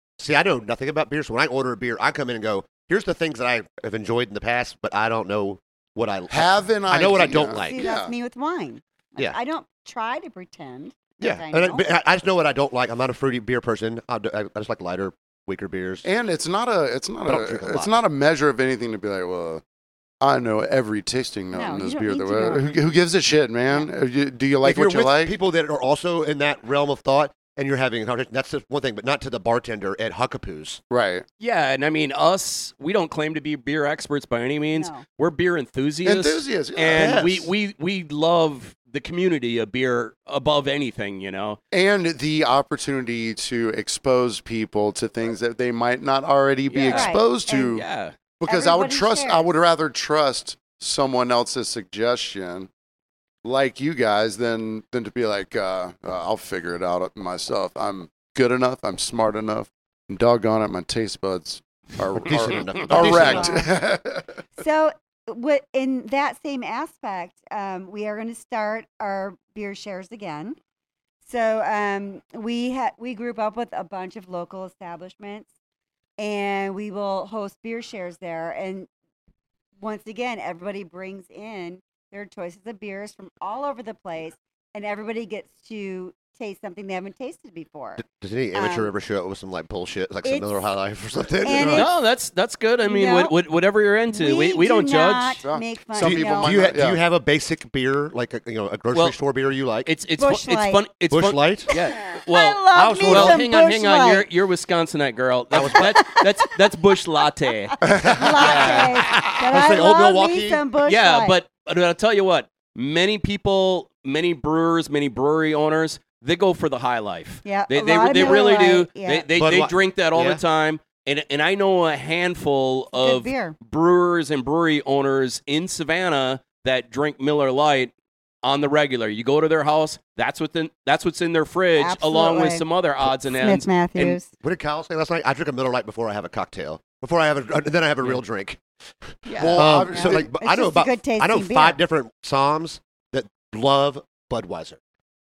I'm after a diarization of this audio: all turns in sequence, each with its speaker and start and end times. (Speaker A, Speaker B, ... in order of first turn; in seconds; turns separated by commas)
Speaker A: 0.2-7.8, Speaker B: 6.3-8.1, Speaker C: 7.7-11.9, Speaker A: 11.2-16.1, Speaker B: 16.0-19.6, Speaker A: 17.2-17.9, Speaker B: 20.2-25.3, Speaker C: 21.5-22.7, Speaker A: 24.6-30.8, Speaker B: 30.9-31.2, Speaker D: 31.4-41.6, Speaker C: 34.7-35.0, Speaker B: 36.0-37.3, Speaker A: 36.9-37.5, Speaker B: 41.7-47.8, Speaker D: 46.7-48.1, Speaker C: 46.9-47.7, Speaker B: 48.4-52.7, Speaker C: 48.5-49.5, Speaker B: 53.4-64.3, Speaker A: 62.1-63.6, Speaker C: 62.9-63.7, Speaker C: 64.6-70.5, Speaker C: 71.2-75.5, Speaker C: 76.2-78.9, Speaker C: 79.8-88.0, Speaker A: 88.0-91.9, Speaker C: 88.5-88.9, Speaker C: 91.4-91.9, Speaker D: 91.7-95.4, Speaker C: 92.8-93.3, Speaker C: 94.1-96.7, Speaker B: 95.4-97.0, Speaker A: 96.0-99.9, Speaker D: 99.9-109.3, Speaker C: 100.2-100.8, Speaker A: 101.1-101.7, Speaker C: 101.7-104.3, Speaker A: 102.7-103.4, Speaker A: 105.5-106.0, Speaker C: 105.8-106.3, Speaker B: 107.9-109.3, Speaker A: 108.0-110.6, Speaker C: 108.0-111.4, Speaker D: 110.8-127.9, Speaker C: 117.5-119.3, Speaker A: 119.3-120.4, Speaker C: 122.9-123.5, Speaker D: 128.4-134.2, Speaker C: 131.8-132.7, Speaker C: 133.2-134.3, Speaker A: 134.4-144.8, Speaker D: 139.3-139.6, Speaker B: 139.3-140.3, Speaker C: 139.9-141.8